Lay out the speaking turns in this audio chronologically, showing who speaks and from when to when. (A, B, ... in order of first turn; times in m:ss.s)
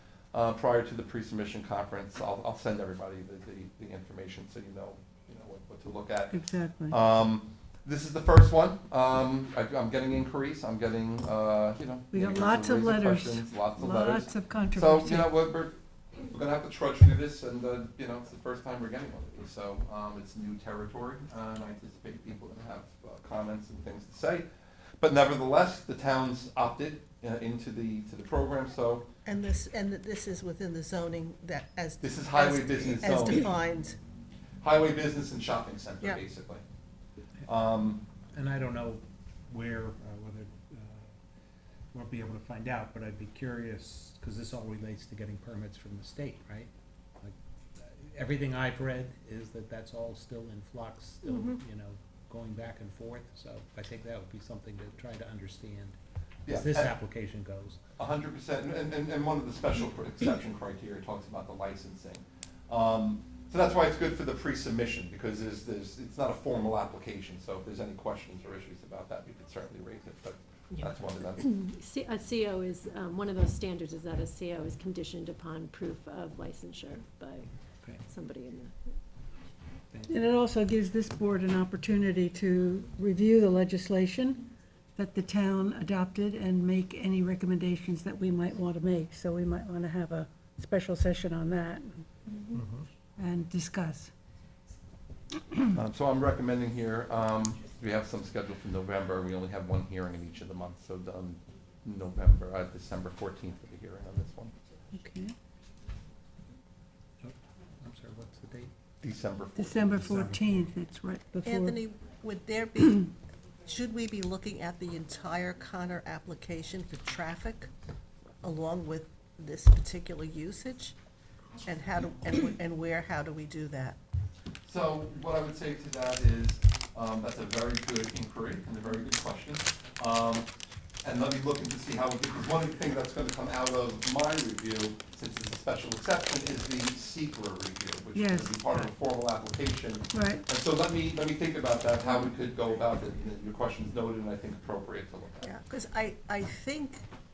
0:00.3-0:15.8 A
0:06.3-0:07.0 B
0:12.1-0:15.3 B
0:16.3-0:24.5 A
0:25.0-0:29.0 A
0:29.2-0:34.0 C
0:32.0-0:33.5 A
0:34.6-0:36.6 A
0:37.4-0:38.0 A
0:38.3-0:41.1 D
0:41.9-0:57.8 D
0:51.3-0:51.5 C
0:56.4-0:56.9 A
0:58.0-1:11.5 A
1:11.4-1:17.5 E
1:18.0-1:18.7 E
1:19.9-1:20.2 D
1:20.1-1:32.0 B
1:32.5-1:32.8 D
1:33.2-1:34.1 B
1:35.7-1:44.5 A
1:44.9-1:45.3 B
1:47.2-1:48.7 D
1:49.0-1:50.2 A
1:49.5-1:51.8 B
1:50.0-1:50.6 D
1:51.4-1:53.1 C
1:53.6-1:57.7 C
1:58.4-2:01.0 C
2:01.6-2:04.0 C
2:04.6-2:10.5 A
2:11.0-2:25.5 A
2:18.1-2:18.6 B
2:20.1-2:20.4 B
2:25.4-2:27.0 C